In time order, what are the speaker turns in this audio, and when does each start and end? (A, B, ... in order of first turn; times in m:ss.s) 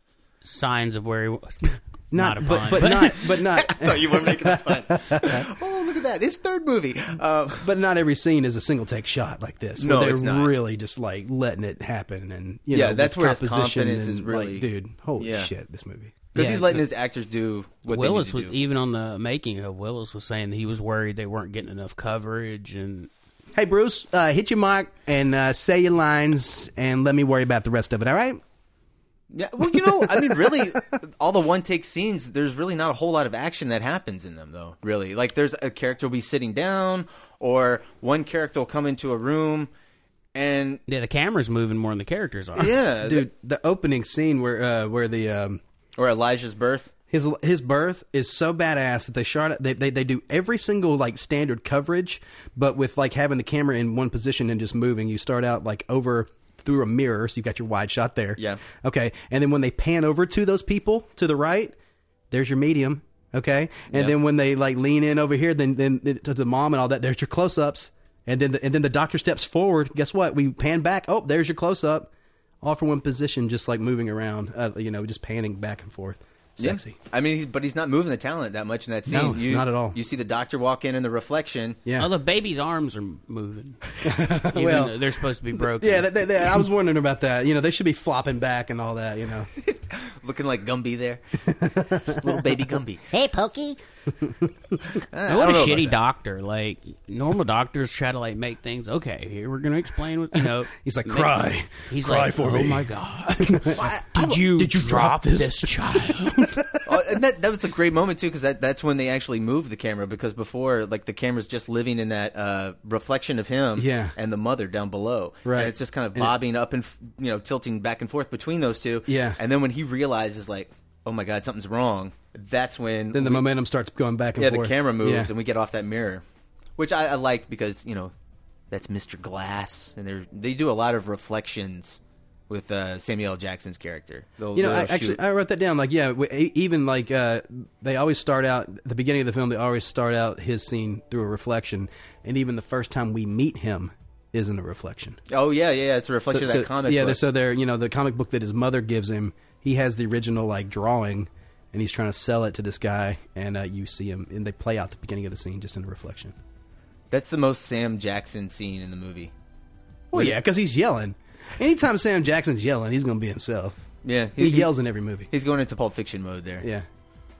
0:00.4-0:03.3 A
0:02.1-0:05.4 B
0:02.8-0:07.7 C
0:07.6-0:16.7 B
0:09.8-0:10.5 C
0:12.7-0:14.7 C
0:15.2-0:15.5 C
0:16.3-0:16.6 A
0:16.3-0:18.6 C
0:17.9-0:23.1 A
0:23.6-0:28.4 B
0:29.3-0:39.7 C
0:29.8-0:30.6 B
0:40.3-0:40.8 C
0:40.9-0:42.8 A
0:42.6-0:43.3 C
0:43.0-0:45.6 B
0:46.0-0:46.9 C
0:47.1-1:01.8 B
0:58.4-0:58.6 C
1:02.3-1:12.1 B
1:03.9-1:04.2 C
1:12.6-1:17.0 B
1:16.6-1:21.8 C
1:19.1-1:20.0 B
1:22.0-1:26.6 A
1:24.0-1:24.9 B
1:25.6-1:29.5 B
1:29.6-1:31.2 C
1:31.5-1:32.3 B
1:31.8-1:33.1 C
1:34.9-1:35.9 C
1:35.3-1:46.6 A
1:40.8-1:42.9 B
1:43.4-1:43.8 B
1:43.8-1:44.4 C
1:44.6-1:46.9 B
1:46.9-2:03.5 C
1:53.8-1:54.1 B
1:55.4-1:56.4 B
1:59.1-1:59.4 B
2:03.1-2:05.3 B
2:04.4-2:06.2 C
2:06.8-2:08.1 C
2:08.7-2:15.2 C
2:14.6-2:25.2 B
2:25.3-2:27.2 C
2:26.3-2:36.3 B
2:37.1-2:39.3 C
2:40.1-2:43.8 B
2:44.0-2:44.7 C
2:44.4-2:45.3 B
2:45.3-2:46.6 C
2:46.6-2:46.9 B